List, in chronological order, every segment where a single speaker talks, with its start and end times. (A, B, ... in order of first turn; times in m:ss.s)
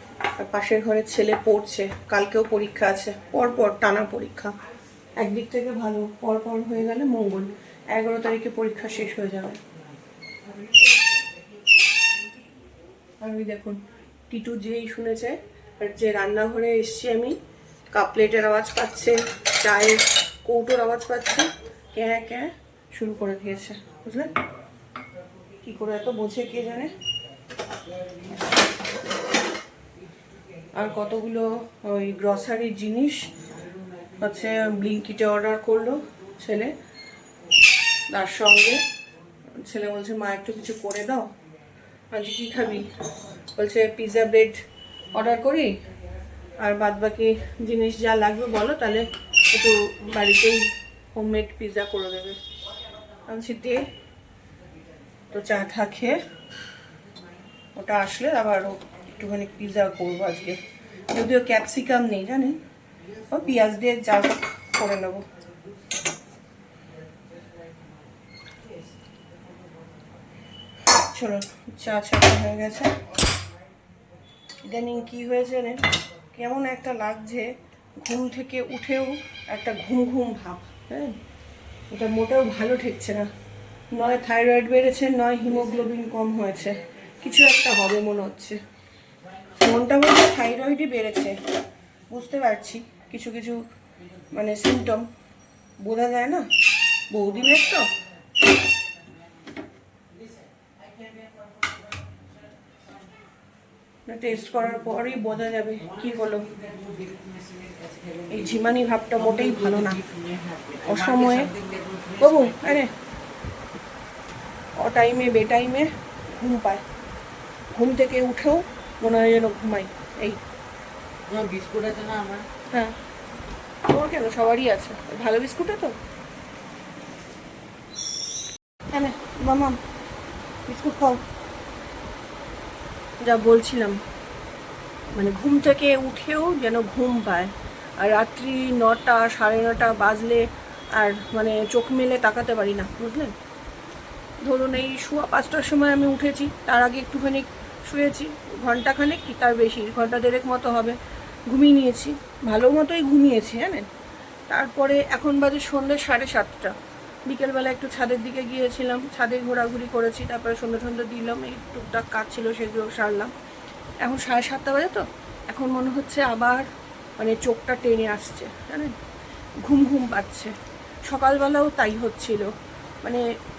0:00.4-0:04.5 A
0:05.2-0:09.6 A
0:13.2-0:17.4 A
0:17.9-0:24.3 A
0:25.6-0:26.9 A
0:30.7-0:33.3 A
0:34.2-0:36.7 A
0:38.1-0:38.8 A
0:39.6-0:41.3 A
0:42.1-0:42.9 A
0:43.6-0:44.6 A
0:45.1-0:45.7 A
0:46.6-0:52.4 A
0:53.3-0:53.8 A
0:55.3-0:56.2 A
0:57.8-1:00.6 A
1:01.1-1:02.6 A
1:03.3-1:05.2 A
1:10.8-1:13.0 A
1:14.7-1:21.2 A
1:21.9-1:23.3 A
1:23.9-1:28.6 A
1:29.6-1:31.4 A
1:32.1-1:33.6 A
1:34.3-1:35.1 A
1:35.8-1:36.5 A
1:37.1-1:37.9 A
1:41.0-1:41.3 B
1:44.1-1:46.5 A
1:46.4-1:48.3 B
1:48.3-1:50.0 A
1:49.2-1:52.7 B
1:50.8-1:51.5 A
1:52.2-1:52.9 A
1:54.8-1:56.8 A
1:57.7-2:00.4 A
2:01.3-2:02.5 B
2:03.9-2:06.0 A
2:08.9-2:09.8 A
2:10.7-2:11.2 A
2:13.2-2:14.0 A
2:15.2-2:23.3 A
2:24.4-2:31.0 A
2:31.5-2:33.9 A
2:34.5-2:36.8 A
2:37.3-2:43.3 A
2:44.0-2:48.9 A
2:49.6-2:50.5 A
2:51.1-2:52.5 A